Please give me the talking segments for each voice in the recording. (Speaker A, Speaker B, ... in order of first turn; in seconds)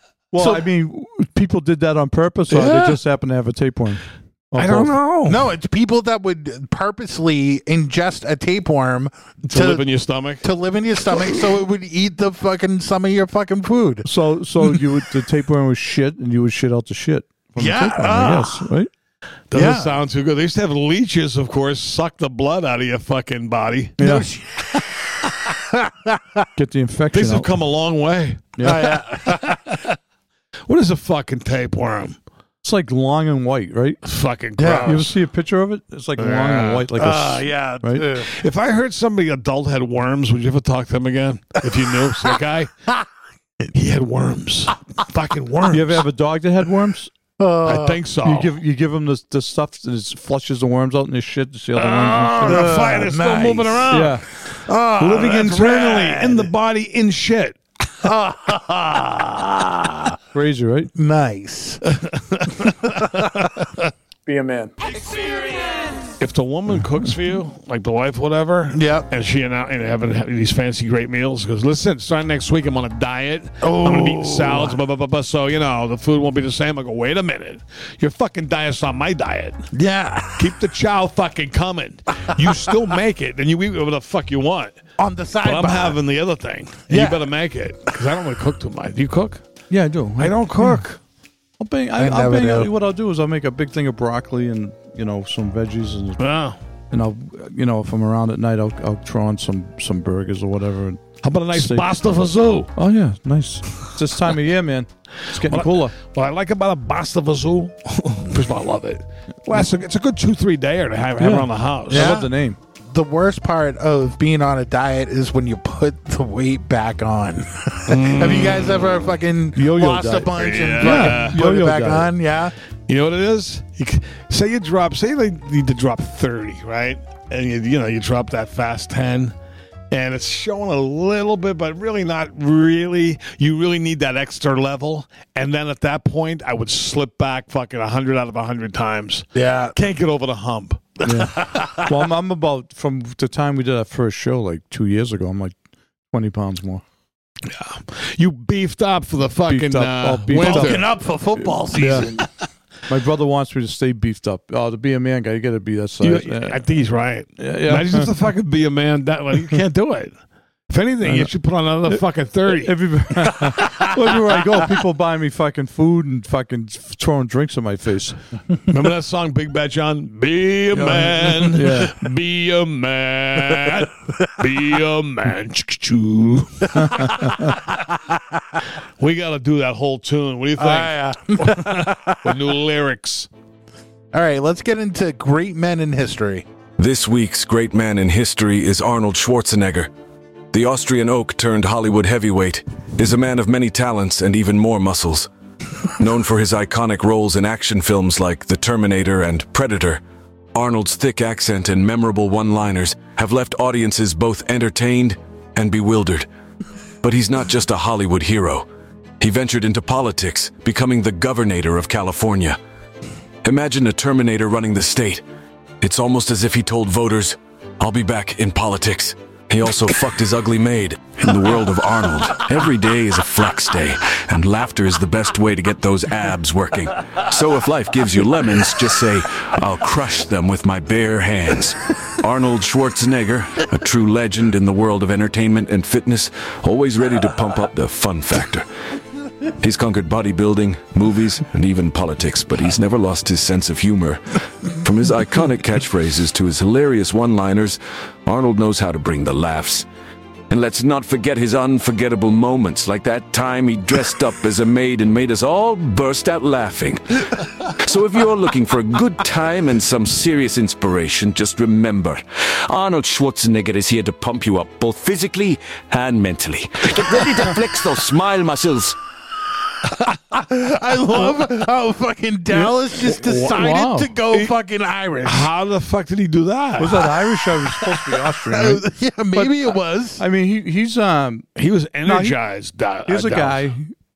Speaker A: 0.3-5.0, 14.1-18.9, 24.0-24.3, 26.6-27.5, 28.6-29.0, 32.6-34.0, 34.8-38.1, 45.7-47.1, 48.2-53.0, 53.9-54.2, 60.3-60.9, 64.3-64.7, 89.7-90.8, 91.6-96.2, 96.9-101.9, 102.8-106.0, 111.2-112.6, 119.6-122.1, 141.1-145.6, 146.1-146.8, 149.5-150.8, 151.4-152.1, 152.9-156.6, 157.4-158.1, 161.0-161.3, 161.9-168.2, 171.2-171.9, 272.5-274.2, 276.8-281.5, 282.1-282.4, 283.1-283.9
Speaker B: 2.5-3.0, 4.6-5.4, 9.4-10.5, 19.5-24.0, 27.1-28.6, 29.3-29.8, 30.7-32.2, 34.0-35.1, 36.2-36.9, 38.2-42.7, 43.7-46.0, 47.6-48.5, 51.8-54.2, 55.0-57.6, 61.9-63.9, 66.2-79.6, 80.4-84.8, 85.4-89.4, 90.2-91.0, 96.2-96.6, 101.2-102.7, 105.5-112.2, 117.9-118.9, 120.4-121.4, 122.9-129.3, 129.9-140.9, 147.4-150.8, 156.0-160.2, 160.7-162.8, 168.7-177.3, 179.0-183.3, 275.2-277.0, 281.6-283.6
Speaker C: 5.3-9.9, 10.4-14.1, 17.6-18.6, 19.5-20.0, 24.0-26.4, 28.6-29.8, 34.6-35.0, 37.0-38.3, 47.4-48.0, 52.4-54.0, 54.7-56.5, 58.0-60.2, 61.0-61.8, 62.7-63.0, 68.7-69.1, 73.6-74.8, 79.7-80.4, 85.0-86.0, 86.9-87.3, 92.0-92.7, 111.9-112.3, 112.9-122.5, 139.3-139.8, 141.1-141.9, 150.3-152.3, 170.9-171.5, 176.8-177.4, 180.6-182.3, 184.1-186.4, 270.3-275.5, 278.4-280.2
Speaker D: 186.8-189.9, 190.5-195.3, 196.0-200.0, 200.5-206.3, 207.0-208.7, 209.2-212.6, 213.4-215.2, 215.8-238.7, 239.6-249.8, 250.5-257.2, 257.8-269.0